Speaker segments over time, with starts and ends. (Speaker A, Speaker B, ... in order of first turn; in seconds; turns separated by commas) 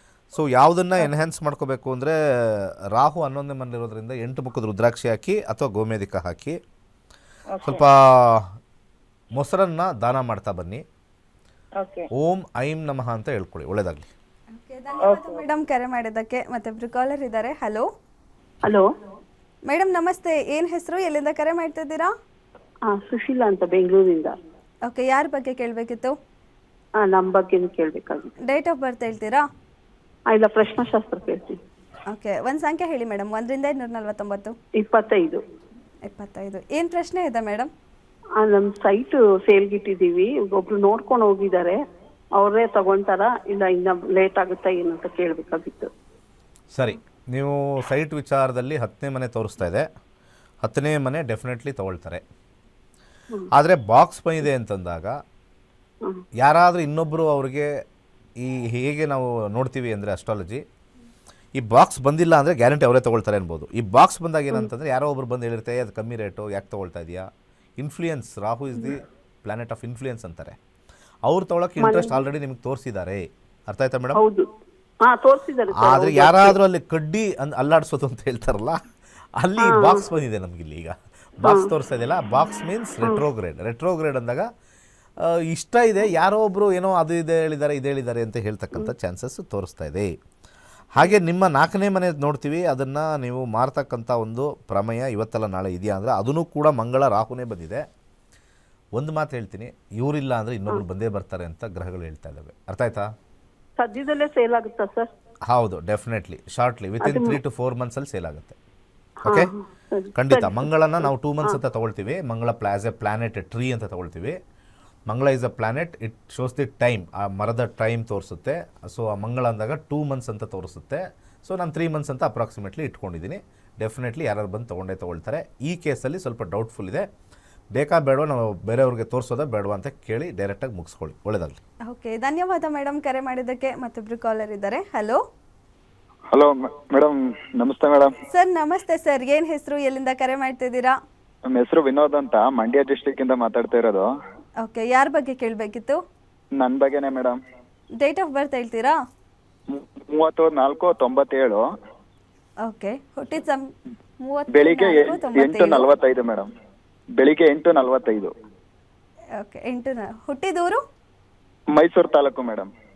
Speaker A: 0.3-6.6, Speaker B: 7.5-7.8, Speaker A: 7.6-8.4, Speaker A: 9.4-10.8, Speaker B: 11.8-12.1, Speaker A: 12.2-14.1, Speaker C: 14.5-17.9, Speaker B: 15.0-15.4, Speaker C: 19.7-22.1, Speaker B: 22.9-24.3, Speaker D: 23.3-23.8, Speaker C: 24.9-26.1, Speaker B: 27.1-28.3, Speaker D: 27.3-27.7, Speaker C: 28.4-29.4, Speaker B: 30.4-31.6, Speaker C: 32.1-34.6, Speaker B: 34.9-35.4, Speaker C: 36.1-37.7, Speaker B: 38.4-41.8, Speaker B: 42.4-45.9, Speaker A: 46.7-49.9, Speaker A: 50.6-52.2, Speaker A: 53.5-55.1, Speaker A: 56.4-57.7, Speaker A: 58.4-60.6, Speaker A: 61.6-67.3, Speaker A: 67.8-70.6, Speaker A: 71.3-74.2, Speaker B: 71.8-72.2, Speaker B: 74.2-74.5, Speaker B: 75.0-76.6, Speaker A: 75.7-78.8, Speaker A: 79.4-84.5, Speaker B: 79.6-80.1, Speaker B: 81.4-81.7, Speaker A: 85.3-90.1, Speaker A: 91.0-97.8, Speaker A: 99.0-103.1, Speaker B: 103.8-105.1, Speaker A: 105.5-108.6, Speaker B: 107.1-107.4, Speaker B: 109.2-110.7, Speaker A: 109.3-109.5, Speaker A: 110.2-114.4, Speaker A: 115.1-127.1, Speaker A: 127.8-131.6, Speaker C: 131.9-135.2, Speaker D: 136.3-138.1, Speaker C: 138.3-140.9, Speaker D: 141.5-144.1, Speaker C: 144.6-146.0, Speaker D: 146.6-147.4, Speaker C: 148.0-148.9, Speaker D: 149.7-151.6, Speaker C: 152.7-153.6, Speaker C: 154.2-155.9, Speaker D: 154.5-156.5, Speaker D: 157.2-158.3, Speaker C: 159.4-160.8, Speaker D: 161.8-162.7